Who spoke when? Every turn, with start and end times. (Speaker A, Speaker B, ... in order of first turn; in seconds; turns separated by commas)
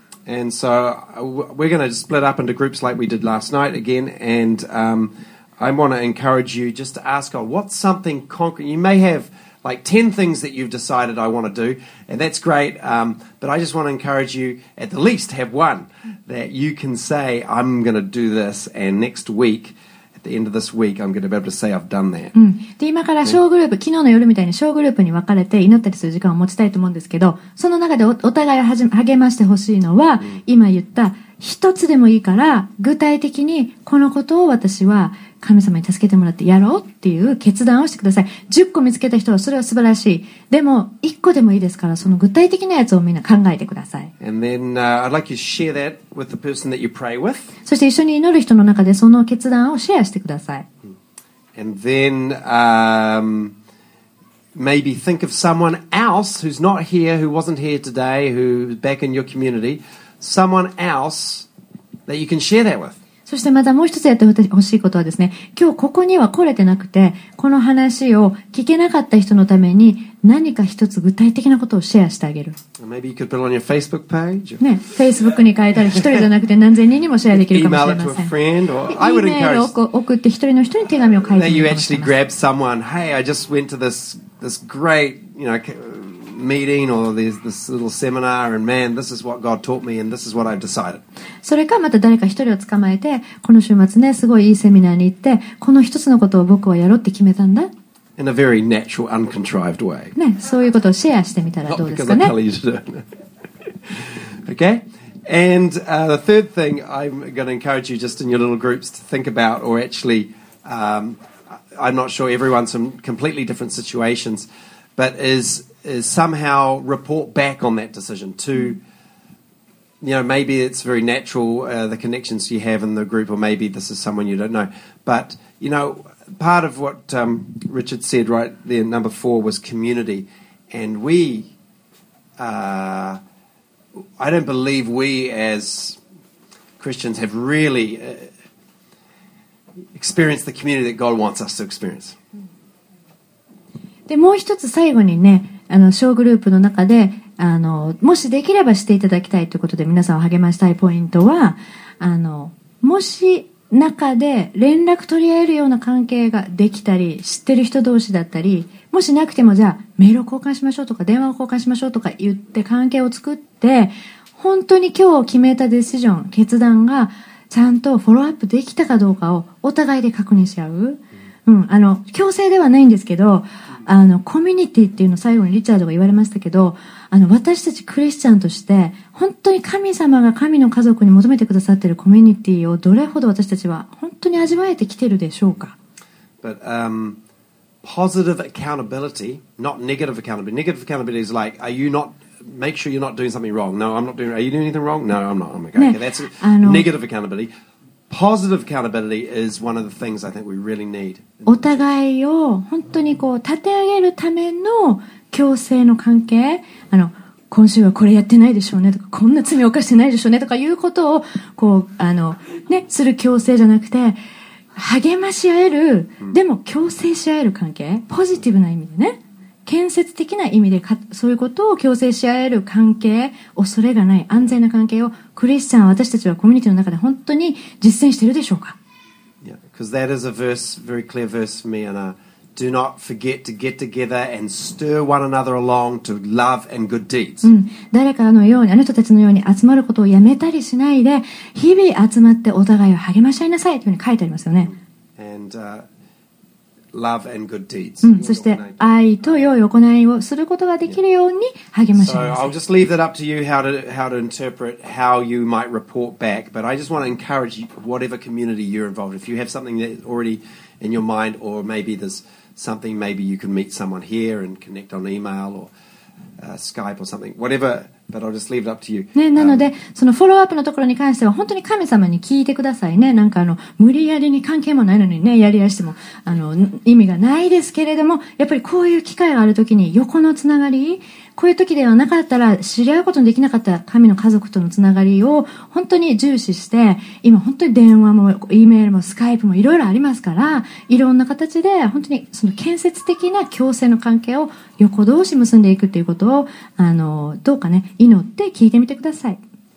Speaker A: 0.3-22.3, Speaker B: 22.4-44.1, Speaker A: 44.2-47.5, Speaker B: 47.7-50.6, Speaker A: 51.5-53.5, Speaker A: 54.5-61.5, Speaker A: 62.1-63.0, Speaker B: 63.3-72.6, Speaker A: 72.8-74.7, Speaker B: 74.6-78.3, Speaker A: 77.3-79.7, Speaker B: 78.9-82.1, Speaker A: 81.3-91.0, Speaker B: 91.4-97.7, Speaker A: 98.2-100.2, Speaker B: 100.2-102.3, Speaker A: 101.7-103.1, Speaker A: 103.9-111.2, Speaker A: 111.7-118.8, Speaker A: 120.0-131.5, Speaker A: 132.4-133.2, Speaker A: 134.2-136.0, Speaker A: 136.8-138.3, Speaker A: 140.0-142.2, Speaker B: 144.1-185.8, Speaker A: 186.4-187.2, Speaker A: 187.8-197.5, Speaker B: 195.8-196.9, Speaker A: 198.1-201.8, Speaker B: 201.5-214.2, Speaker B: 214.8-228.8, Speaker A: 229.4-237.5, Speaker B: 237.4-244.7, Speaker A: 245.2-245.8, Speaker A: 246.9-249.5, Speaker B: 248.0-252.5, Speaker A: 251.9-265.7, Speaker A: 266.4-269.7, Speaker B: 269.1-299.4